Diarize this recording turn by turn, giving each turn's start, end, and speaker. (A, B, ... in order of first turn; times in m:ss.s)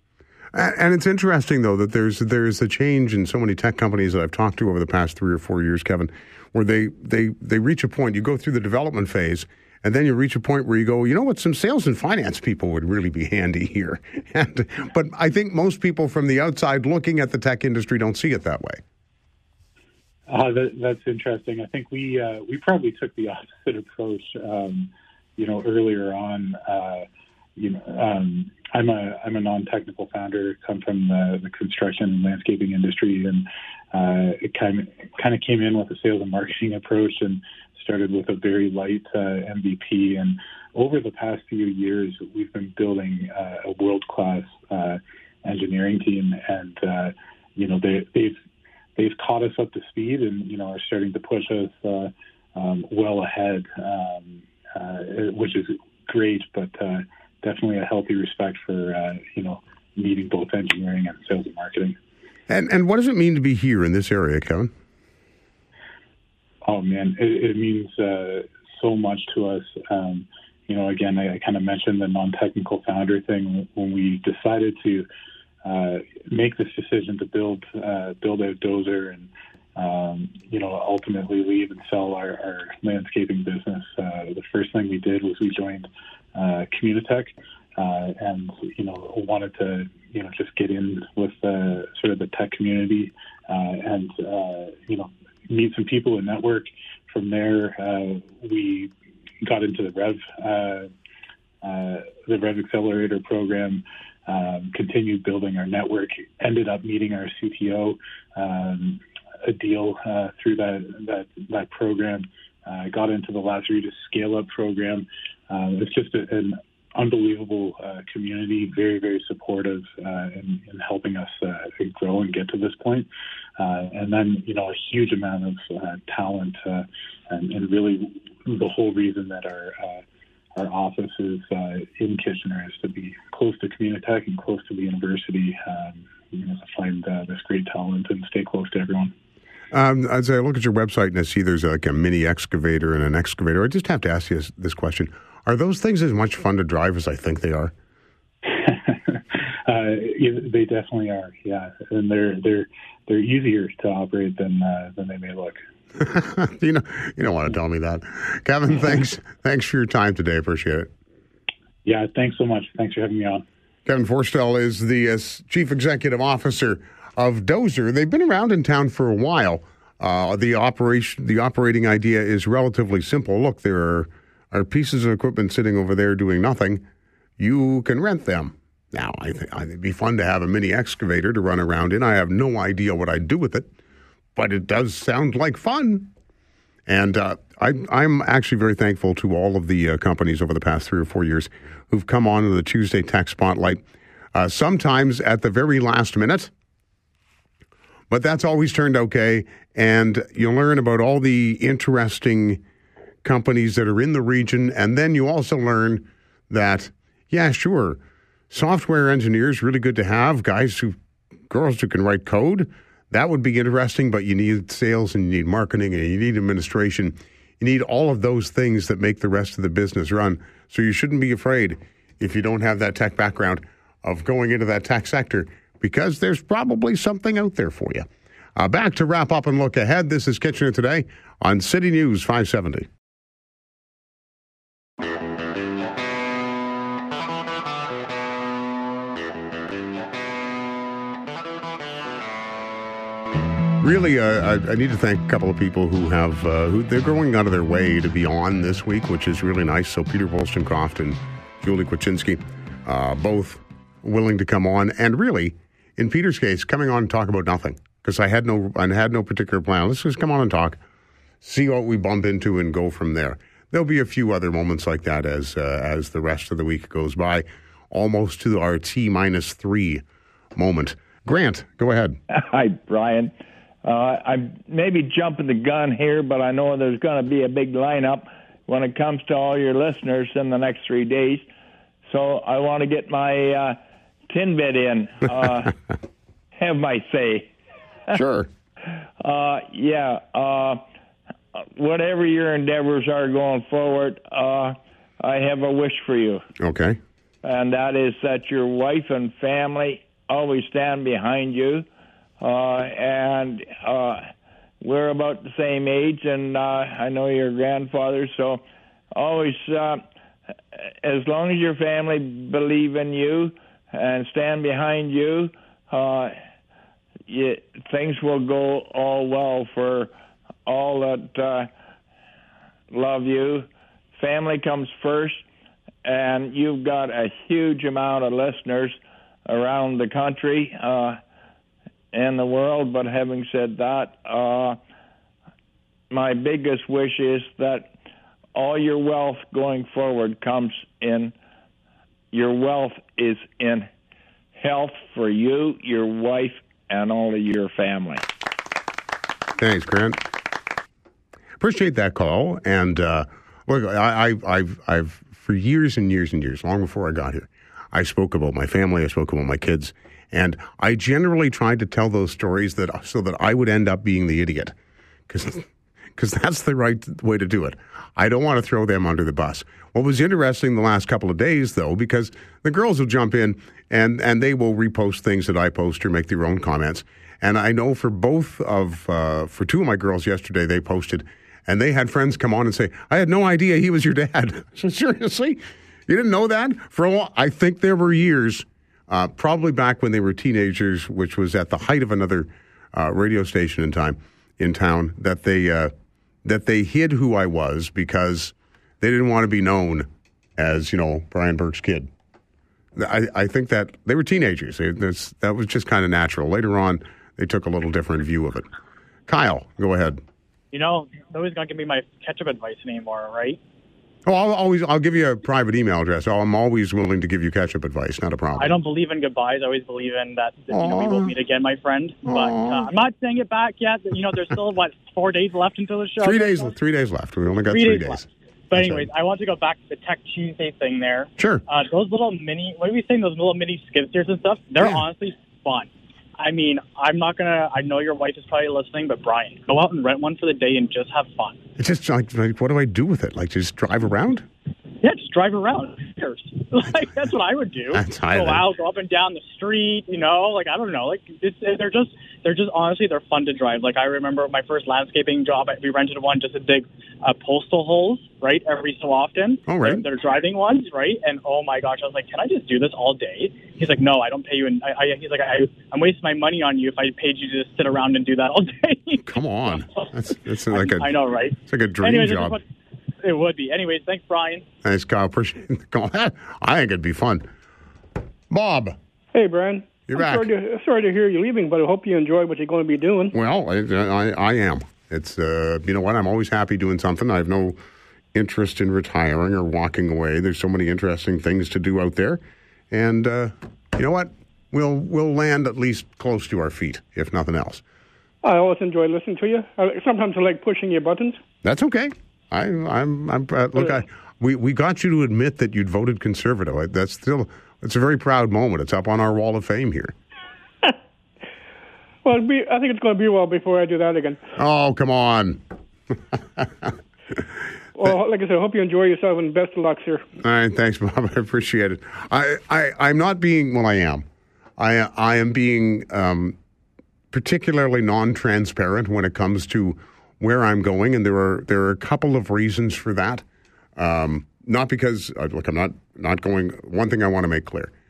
0:00.5-0:18.8 A
0:20.3-0:27.1 B
0:27.6-0:48.4 B
0:49.0-1:02.0 B
1:02.5-1:04.7 A
1:06.6-1:15.1 B
1:15.6-1:38.9 B
1:39.4-1:40.9 B
1:41.6-2:03.1 B
2:03.6-2:10.0 B
2:10.6-2:19.1 B
2:19.7-2:27.7 A
2:28.5-2:35.6 B
2:36.0-2:40.9 A
2:41.8-2:43.4 B
2:43.9-2:56.8 A
2:57.4-3:03.7 A
3:04.4-3:06.1 A
3:06.9-3:13.8 A
3:14.4-3:16.5 A
3:18.1-3:22.6 A
3:23.2-3:28.0 A
3:28.5-3:31.0 A
3:31.5-3:48.1 A
3:48.6-3:52.9 A
4:03.8-4:20.8 A
4:21.4-4:30.0 A
4:30.6-4:32.2 A
4:32.3-4:33.3 C
4:33.8-4:41.5 C
4:42.1-4:43.8 C
4:44.3-4:45.7 C
4:46.6-4:47.5 C
4:48.1-4:48.5 A
4:49.2-4:50.8 C
4:51.8-4:56.4 C
4:56.6-4:57.0 A
4:57.4-5:01.9 C
5:02.4-5:04.3 C
5:04.8-5:10.0 C
5:11.0-5:16.4 C
5:17.3-5:20.1 C
5:20.7-5:21.7 C
5:22.9-5:25.4 C
5:26.0-5:31.2 C
5:32.1-5:34.8 C
5:36.1-5:37.9 C
5:38.6-5:41.3 C
5:42.3-5:43.9 C
5:44.6-5:48.2 C
5:49.6-5:50.2 A
5:51.6-6:04.7 A
6:05.3-6:35.9 A
6:36.4-6:42.1 A
6:43.0-6:48.7 A
6:49.3-6:50.2 A
6:50.7-6:53.6 D
6:54.3-6:58.8 A
6:58.6-7:06.7 D
7:00.7-7:01.3 A
7:02.3-7:02.9 A
7:06.2-7:09.1 A
7:07.7-7:21.6 D
7:11.4-7:11.6 A
7:21.8-7:24.4 A
7:25.0-7:50.1 D
7:27.9-7:28.6 A
7:39.7-7:40.0 A
7:49.3-7:52.6 A
7:50.7-7:52.6 D
7:53.2-7:54.6 D
7:54.8-7:57.4 A
7:58.5-7:59.0 A
7:59.3-8:03.3 E
8:00.1-8:00.5 A
8:03.3-8:07.8 A
8:08.3-8:12.4 A
8:12.9-8:17.8 A
8:18.4-8:21.4 E
8:21.6-8:30.1 A
8:32.2-8:34.4 E
8:34.6-8:35.6 A
8:36.6-8:36.9 A
8:38.0-8:40.2 E
8:40.4-8:44.3 A
8:44.8-8:46.6 A
8:47.3-8:53.4 A
8:54.0-8:57.9 A